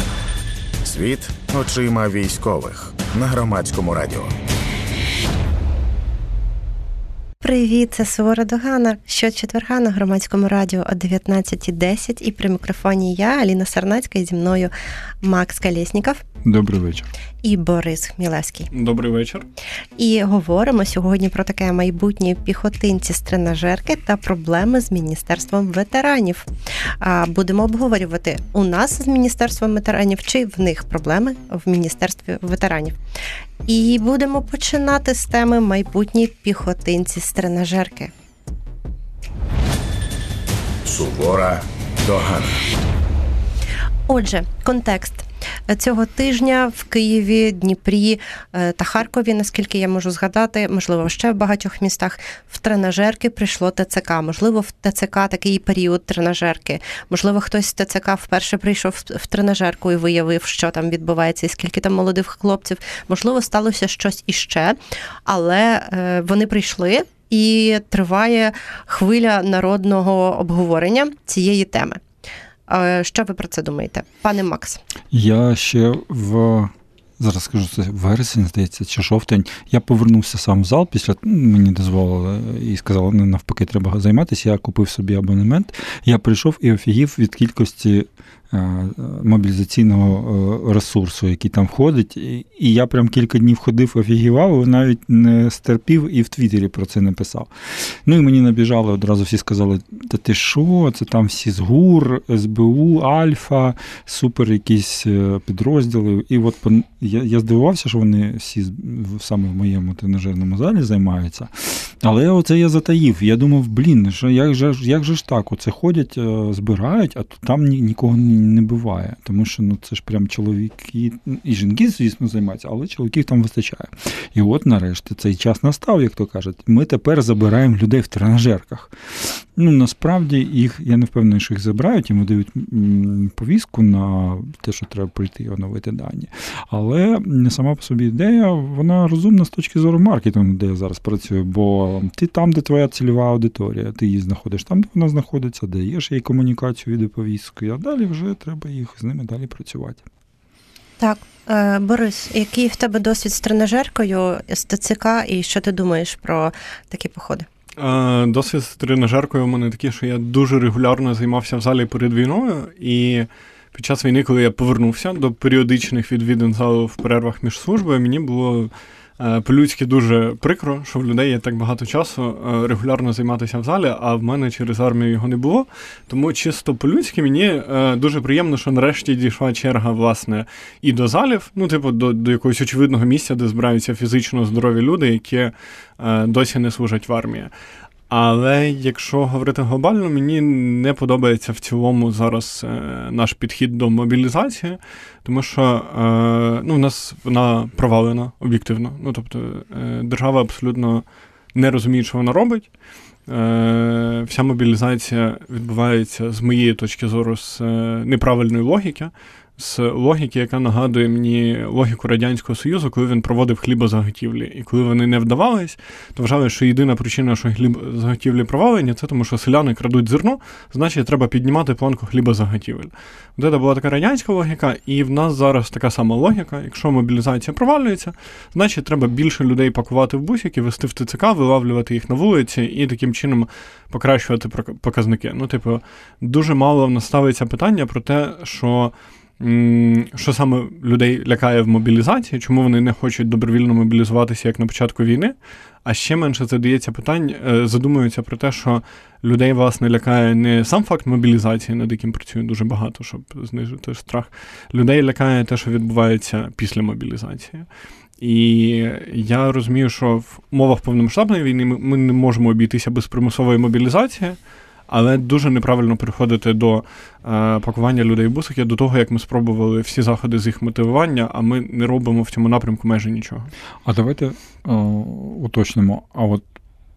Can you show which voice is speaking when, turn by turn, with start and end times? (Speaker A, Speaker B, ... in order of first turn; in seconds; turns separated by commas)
Speaker A: 0.8-4.4, Speaker B: 7.4-14.7, Speaker B: 15.2-16.2, Speaker C: 16.4-17.1, Speaker B: 17.4-18.7, Speaker D: 18.7-19.4, Speaker B: 20.0-26.5, Speaker B: 27.0-33.0, Speaker B: 33.6-38.1, Speaker A: 40.8-42.6, Speaker B: 44.1-72.0, Speaker B: 72.7-74.8, Speaker C: 75.1-150.0, Speaker B: 151.0-157.5, Speaker D: 157.8-187.5, Speaker D: 188.1-202.7, Speaker D: 203.3-245.3, Speaker D: 245.8-257.7, Speaker D: 258.2-273.5, Speaker C: 273.9-276.4